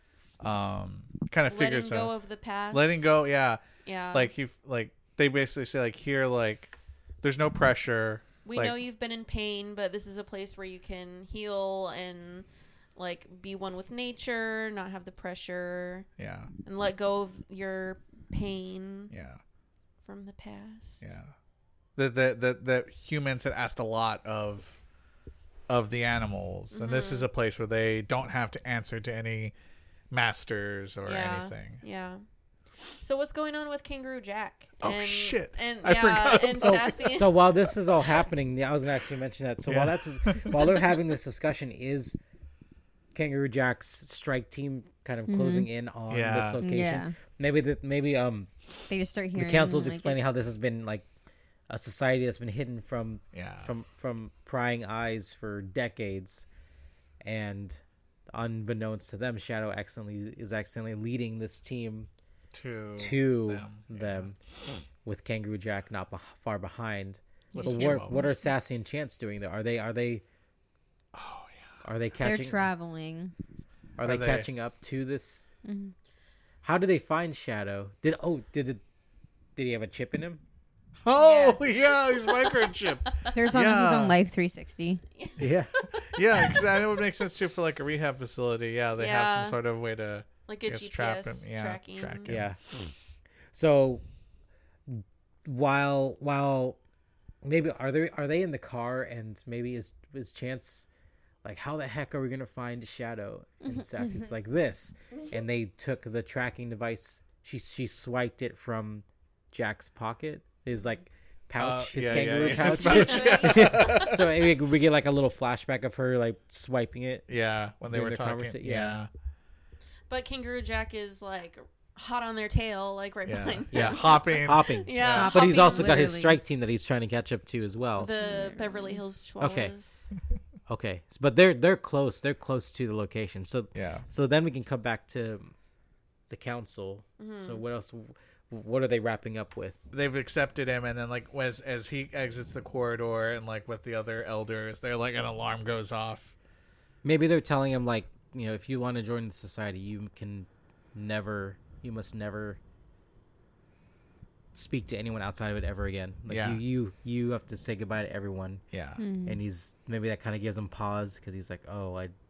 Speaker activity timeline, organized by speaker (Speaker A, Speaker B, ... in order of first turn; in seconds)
Speaker A: 0.4-2.1, 2.7-3.6, 4.1-8.8, 16.2-16.5, 19.1-19.4, 21.0-21.3, 21.9-24.8, 25.7-29.5, 30.1-31.8, 34.8-37.1, 39.6-40.7, 46.1-46.6, 53.3-53.7, 62.5-64.3, 67.5-68.3, 71.1-71.6, 74.0-74.5, 81.0-84.2, 86.1-92.5, 111.6-114.3, 117.3-119.1, 123.2-125.3, 133.7-134.0, 139.9-146.3, 156.3-156.6, 158.7-159.0
Speaker B: 1.5-3.2, 3.8-4.3, 8.4-16.1, 16.6-19.1, 20.0-21.0, 26.7-27.3, 31.1-32.2, 33.0-37.3, 82.0-83.3, 85.2-86.7, 89.0-89.6, 90.5-92.3, 112.5-114.2, 120.1-126.0, 128.0-130.1, 137.2-137.6
Speaker C: 36.6-42.2, 43.1-48.5, 49.3-51.0, 51.7-56.5, 57.2-62.1, 63.0-64.3, 65.0-70.2, 71.8-72.6, 74.0-75.5, 76.6-78.8, 79.5-80.4, 85.4-85.7, 92.3-92.6, 93.5-94.0, 94.9-96.8, 97.4-100.8, 101.4-117.2, 117.9-119.0, 123.7-128.1, 129.4-129.7, 130.7-135.5, 136.3-139.8, 147.0-152.6, 154.5-158.6, 159.2-162.1
Speaker D: 45.3-45.7, 46.6-47.1, 48.9-50.2, 67.5-68.3, 72.2-73.3, 75.6-75.9, 81.2-81.5, 83.3-85.0, 103.7-104.3, 112.1-113.5, 125.1-126.4, 128.2-129.0, 159.0-159.4